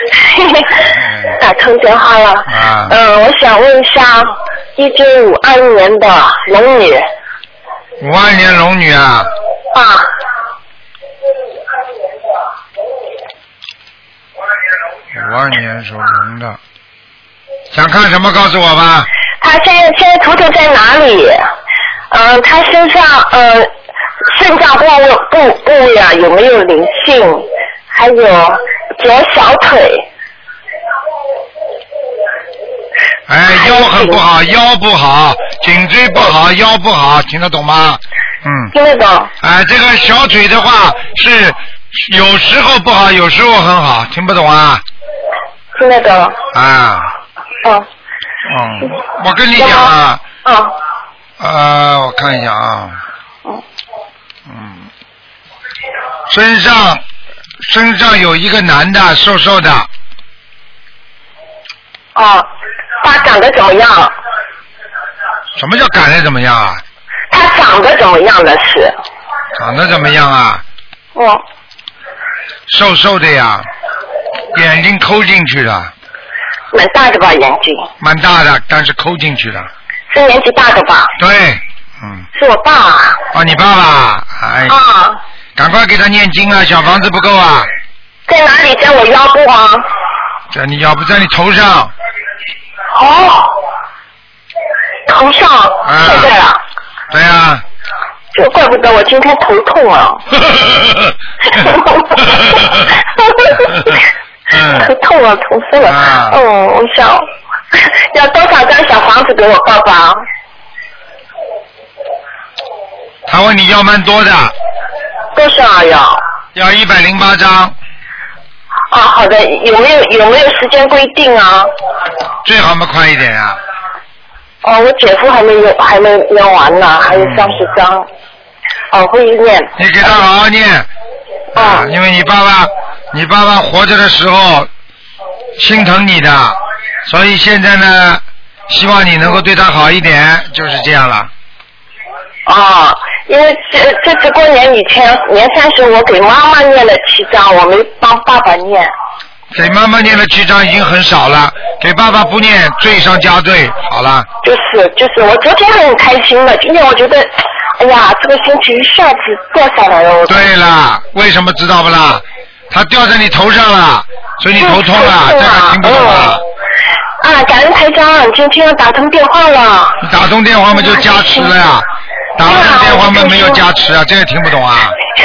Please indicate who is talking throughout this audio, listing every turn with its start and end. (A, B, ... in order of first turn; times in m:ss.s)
0:00.2-0:00.8 A
0:00.8-0:01.4 B
0:01.4-0:07.0 A
0:02.5-0:02.9 B
0:08.0-0:09.3 B
0:09.7-0:10.1 A
0:15.1-0:16.6 B
0:17.7-0:19.1 B
0:19.4-0:21.5 A
0:22.1-0:23.7 A
0:24.2-0:30.0 A
0:33.3-0:38.7 B
0:33.5-0:34.2 A
0:38.7-0:39.3 A
0:39.4-0:44.8 B
0:45.7-0:46.4 A
0:46.5-0:47.1 B
0:48.4-0:50.2 B
0:49.6-0:49.9 A
0:50.4-0:50.7 A
0:51.4-0:53.0 B
0:54.5-0:54.9 B
0:56.3-0:57.0 B
0:57.6-0:59.9 B
1:02.1-1:02.5 A
1:03.0-1:04.1 A
1:05.6-1:06.8 B
1:07.3-1:08.9 A
1:09.6-1:10.6 B
1:11.1-1:11.4 A
1:12.7-1:13.7 B
1:14.5-1:15.9 B
1:16.7-1:17.9 A
1:18.0-1:19.7 B
1:20.1-1:21.1 A
1:21.2-1:22.3 B
1:22.3-1:23.2 A
1:23.3-1:24.8 B
1:24.7-1:25.2 A
1:25.6-1:27.7 B
1:28.3-1:29.9 A
1:30.5-1:31.9 B
1:32.9-1:33.6 A
1:35.1-1:36.6 A
1:35.8-1:36.3 B
1:37.1-1:37.6 B
1:38.3-1:40.2 A
1:40.6-1:41.1 B
1:41.5-1:44.0 A
1:42.2-1:42.7 B
1:44.5-1:44.9 B
1:44.7-1:50.2 A
1:45.8-1:46.4 B
1:53.3-1:54.5 B
1:55.3-1:56.2 A
1:56.5-1:57.7 B
1:58.9-2:01.7 A
2:02.4-2:03.6 B
2:04.6-2:08.1 A
2:07.1-2:07.6 B
2:08.9-2:10.2 A
2:09.8-2:10.9 B
2:11.5-2:14.7 B
2:11.5-2:11.9 A
2:15.6-2:21.3 B
2:22.4-2:28.9 A
2:29.5-2:34.3 B
2:34.4-2:40.4 A
2:40.3-2:46.4 B
2:44.6-2:46.4 A
2:47.2-2:50.0 A
2:50.0-2:51.8 B
2:50.7-2:51.5 A
2:52.4-2:55.0 B
2:52.4-2:53.6 A